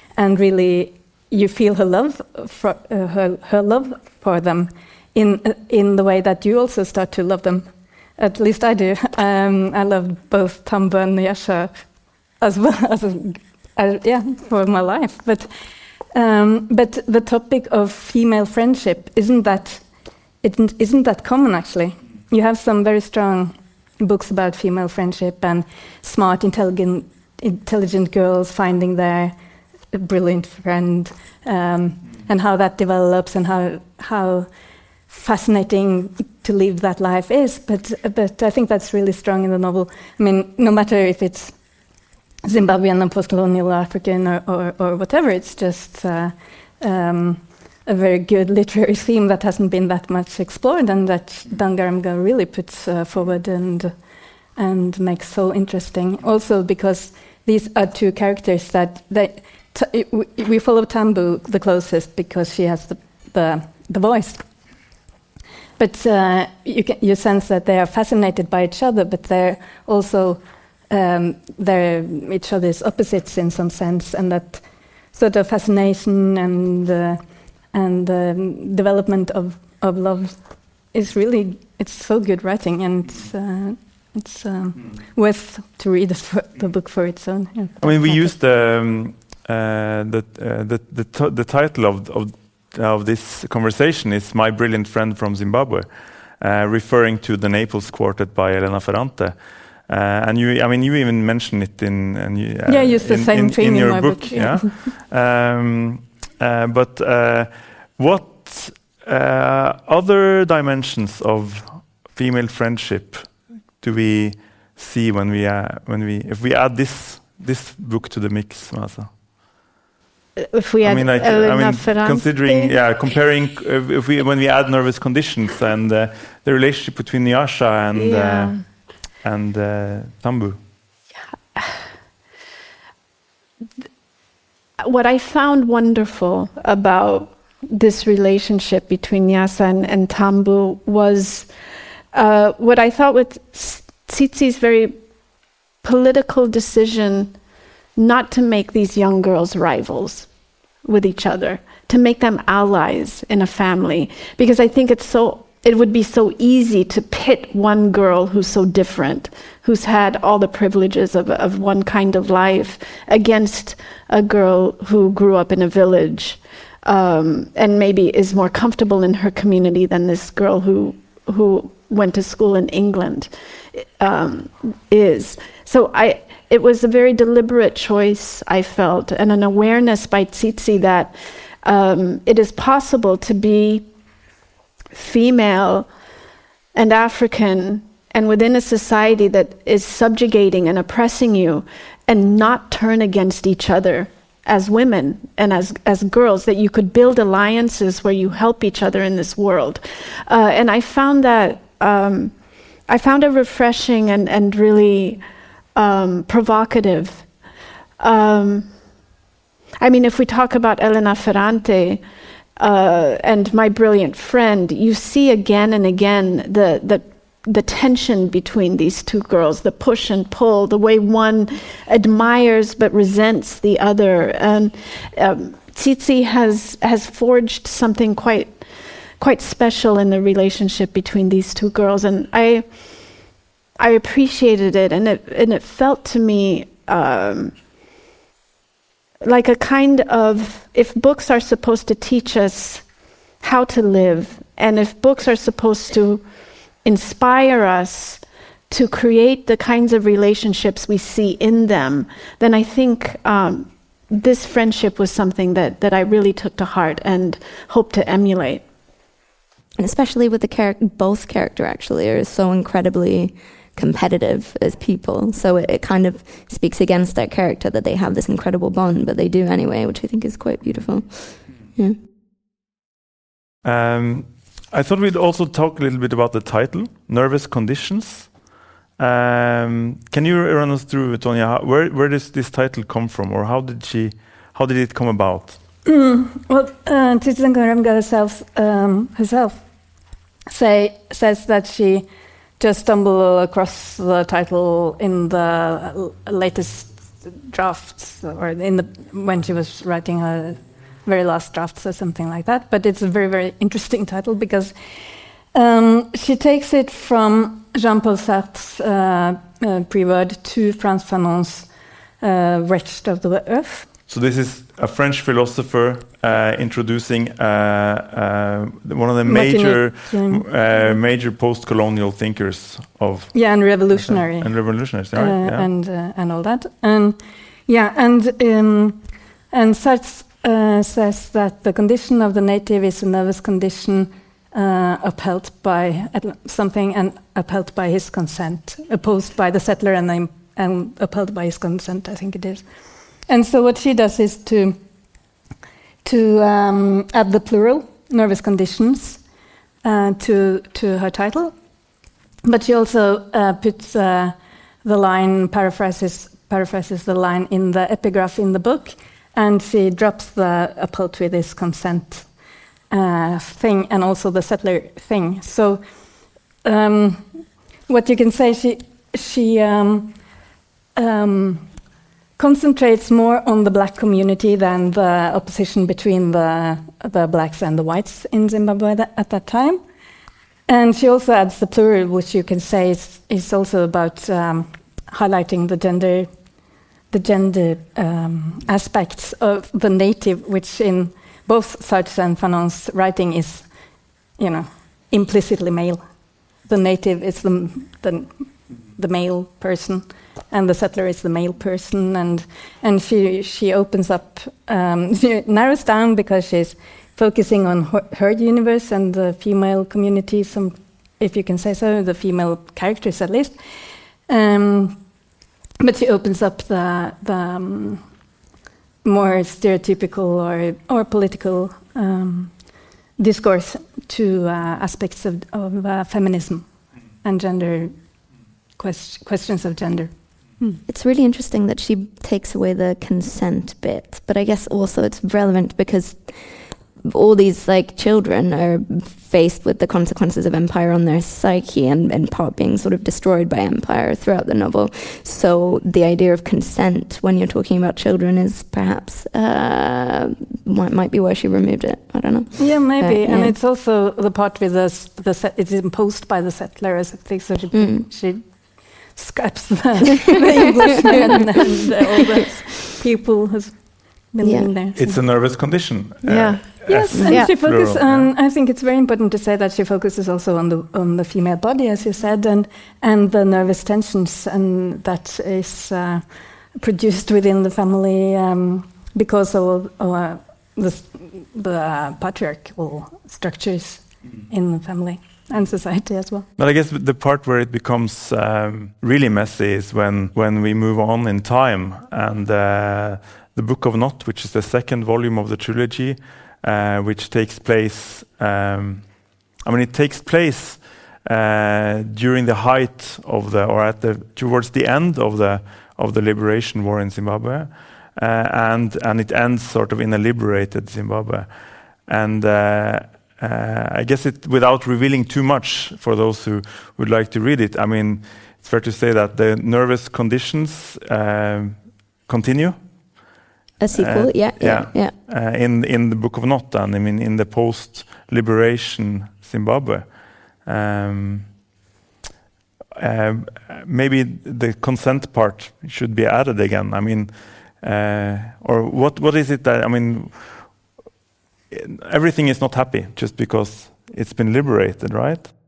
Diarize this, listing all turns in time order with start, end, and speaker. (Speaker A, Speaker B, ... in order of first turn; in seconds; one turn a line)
Speaker A: 0.1-11.8
Speaker A: 12.4-15.5
Speaker A: 16.1-19.8
Speaker A: 20.4-29.4
Speaker A: 29.9-34.5
Speaker A: 35.1-41.6
Speaker A: 42.4-54.0
Speaker A: 54.6-64.5
Speaker A: 65.8-88.4
Speaker B: 87.8-119.1
Speaker A: 102.7-104.8
Speaker C: 120.5-122.7
Speaker B: 120.8-128.6
Speaker C: 128.0-128.6
Speaker B: 129.2-130.6
Speaker C: 131.6-131.8
Speaker C: 134.8-141.5
Speaker C: 142.1-145.0
Speaker C: 145.8-147.3
Speaker C: 148.0-150.3
Speaker C: 150.8-181.1
Speaker C: 181.6-183.9
Speaker C: 184.9-185.9
Speaker C: 186.8-202.3
Speaker C: 202.9-205.2
Speaker C: 205.8-207.3
Speaker C: 208.0-208.7
Speaker C: 209.8-212.0
Speaker C: 212.6-228.6
Speaker C: 229.2-232.7
Speaker C: 233.8-237.6
Speaker C: 239.2-242.9
Speaker C: 243.4-246.2
Speaker C: 246.8-258.6
Speaker D: 259.8-272.0
Speaker B: 273.6-278.3
Speaker B: 279.0-285.6
Speaker A: 285.9-289.6
Speaker A: 290.5-292.1
Speaker A: 292.6-304.7
Speaker A: 305.5-311.7
Speaker A: 312.2-313.9
Speaker B: 314.1-325.7
Speaker A: 319.2-320.4
Speaker A: 323.3-342.6
Speaker A: 343.3-344.8
Speaker A: 346.0-349.2
Speaker A: 349.8-351.5
Speaker A: 352.4-362.3
Speaker A: 362.9-365.8
Speaker A: 366.6-367.3
Speaker A: 367.9-370.2
Speaker A: 370.9-371.7
Speaker A: 372.4-379.8
Speaker A: 380.7-386.3
Speaker A: 387.1-393.7
Speaker A: 394.4-396.0
Speaker A: 396.6-413.6
Speaker A: 414.3-415.0
Speaker A: 415.8-418.0
Speaker A: 419.0-422.6
Speaker A: 423.2-426.7
Speaker A: 427.2-427.9
Speaker A: 428.8-430.8
Speaker D: 430.9-436.4
Speaker D: 437.1-453.5
Speaker A: 452.6-458.6
Speaker D: 457.7-458.1
Speaker A: 459.1-465.2
Speaker D: 464.4-464.7
Speaker B: 464.9-468.3
Speaker C: 466.3-467.6
Speaker A: 466.8-486.5
Speaker D: 467.1-467.4
Speaker B: 486.6-523.3
Speaker D: 523.8-525.1
Speaker B: 523.9-531.5
Speaker B: 533.0-540.8
Speaker B: 541.7-545.5